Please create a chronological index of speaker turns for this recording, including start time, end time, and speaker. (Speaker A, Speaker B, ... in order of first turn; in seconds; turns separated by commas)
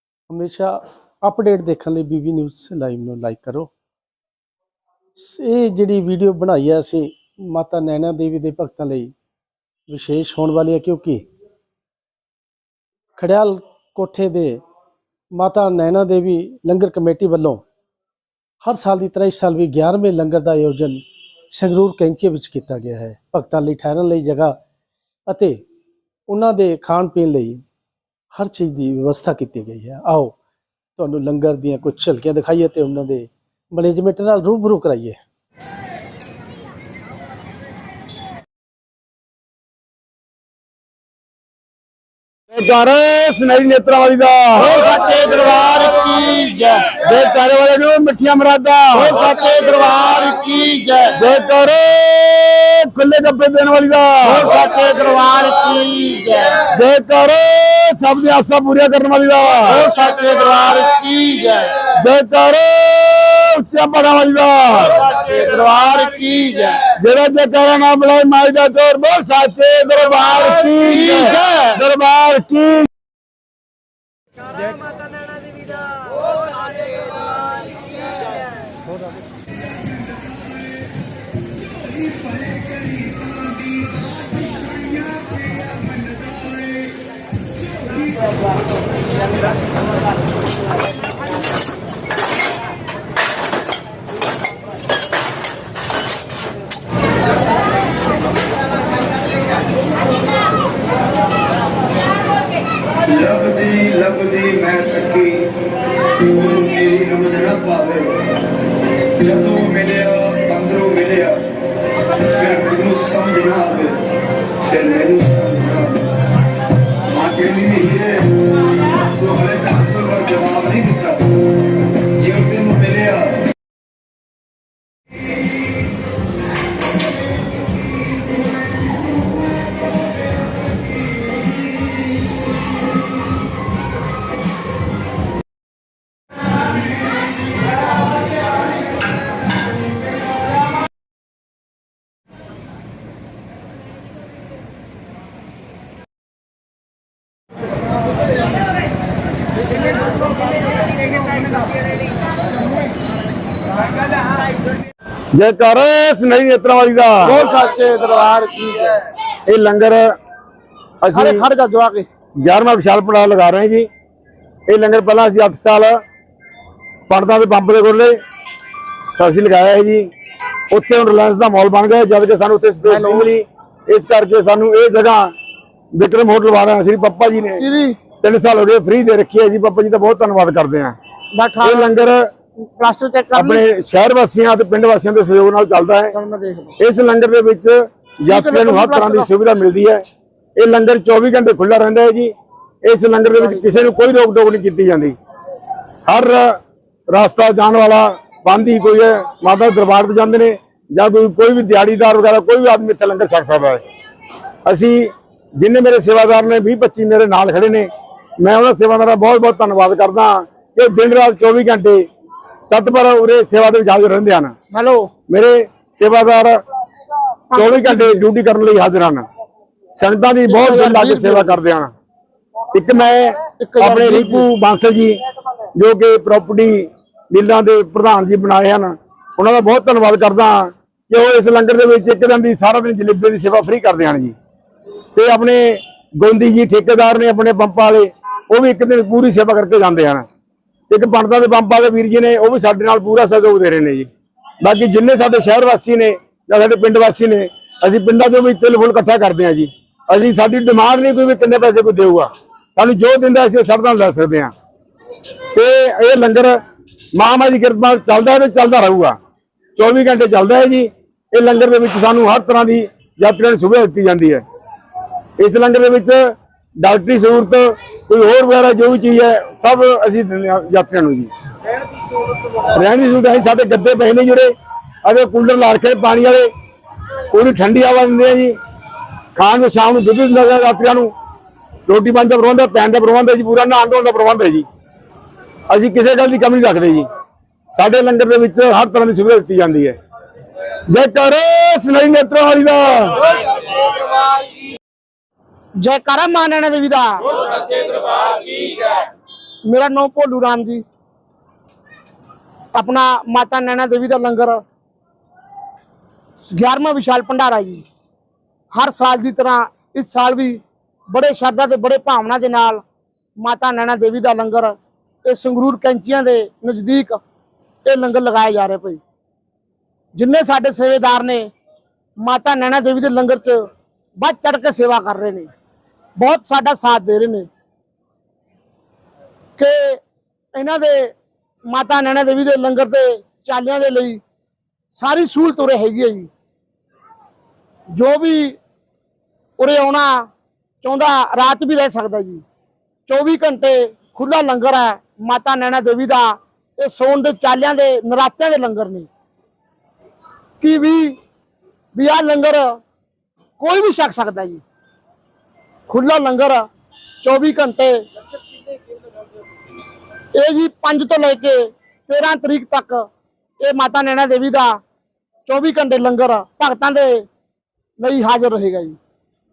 Speaker A: 0.3-3.7, Speaker A: 5.2-9.1, Speaker A: 9.9-11.3, Speaker A: 13.2-14.6, Speaker A: 15.3-17.6, Speaker A: 18.6-24.6, Speaker A: 25.3-25.6, Speaker A: 26.3-27.6, Speaker A: 28.3-30.4, Speaker A: 31.0-35.2, Speaker B: 42.5-44.8, Speaker C: 44.6-47.0, Speaker B: 47.0-49.2, Speaker C: 48.9-51.2, Speaker B: 51.1-54.6, Speaker C: 54.2-56.7, Speaker B: 56.7-59.9, Speaker C: 59.6-61.9, Speaker B: 62.0-65.0, Speaker C: 65.0-66.9, Speaker B: 67.0-72.9, Speaker C: 70.8-71.8, Speaker D: 103.1-105.5, Speaker D: 106.2-108.2, Speaker D: 109.2-111.5, Speaker D: 112.2-114.0, Speaker D: 114.6-116.0, Speaker D: 117.1-118.4, Speaker D: 119.1-121.3, Speaker D: 122.2-123.4, Speaker B: 155.3-157.3, Speaker C: 157.2-158.9, Speaker B: 159.5-160.1, Speaker B: 161.0-161.4, Speaker C: 161.1-162.1, Speaker B: 162.4-163.9, Speaker B: 164.7-166.0, Speaker B: 167.1-168.2, Speaker B: 169.2-170.1, Speaker B: 170.7-175.3, Speaker C: 172.8-173.3, Speaker B: 175.9-177.7, Speaker C: 177.6-178.0, Speaker B: 178.2-181.0, Speaker C: 181.3-182.0, Speaker B: 181.6-182.3, Speaker C: 182.8-183.6, Speaker B: 183.3-186.1, Speaker C: 186.1-186.8, Speaker B: 186.8-190.0, Speaker C: 188.3-189.3, Speaker B: 190.6-192.3, Speaker B: 192.8-195.2, Speaker C: 193.4-193.7, Speaker B: 196.1-196.6, Speaker B: 197.1-203.8, Speaker B: 204.7-207.9, Speaker B: 208.4-212.1, Speaker B: 212.7-214.5, Speaker C: 214.7-215.1, Speaker B: 215.3-216.6, Speaker C: 217.5-218.2, Speaker B: 217.6-219.3, Speaker B: 219.9-221.9, Speaker C: 220.5-221.6, Speaker B: 222.7-225.2, Speaker C: 223.6-224.5, Speaker B: 225.8-234.3, Speaker B: 235.2-240.3, Speaker B: 240.9-244.1, Speaker B: 244.6-254.5, Speaker B: 255.5-256.6, Speaker B: 257.1-259.2, Speaker B: 259.8-264.4, Speaker B: 265.4-266.2, Speaker B: 266.8-271.3, Speaker B: 272.6-274.5, Speaker B: 275.1-276.5, Speaker B: 277.3-278.6, Speaker B: 279.4-281.1, Speaker B: 281.9-284.7, Speaker B: 285.7-287.1, Speaker B: 287.8-290.0, Speaker B: 290.9-293.3, Speaker C: 295.8-299.0, Speaker C: 299.7-300.8, Speaker C: 302.8-304.6, Speaker C: 306.6-307.9, Speaker C: 308.7-312.8, Speaker C: 313.4-317.2, Speaker C: 317.9-319.0, Speaker C: 320.1-321.5, Speaker C: 322.2-323.7, Speaker C: 324.2-325.5, Speaker C: 326.2-327.5, Speaker C: 329.6-330.0, Speaker C: 330.6-331.1, Speaker C: 331.7-334.2, Speaker C: 334.9-336.3, Speaker C: 338.0-338.6, Speaker C: 339.6-340.3, Speaker C: 340.8-342.4, Speaker C: 343.1-349.1, Speaker C: 350.6-351.2, Speaker C: 351.9-352.8, Speaker C: 353.6-354.6, Speaker C: 355.9-356.6, Speaker C: 357.2-358.0, Speaker C: 360.4-363.0, Speaker C: 363.6-364.8, Speaker C: 365.5-367.3, Speaker C: 368.0-369.0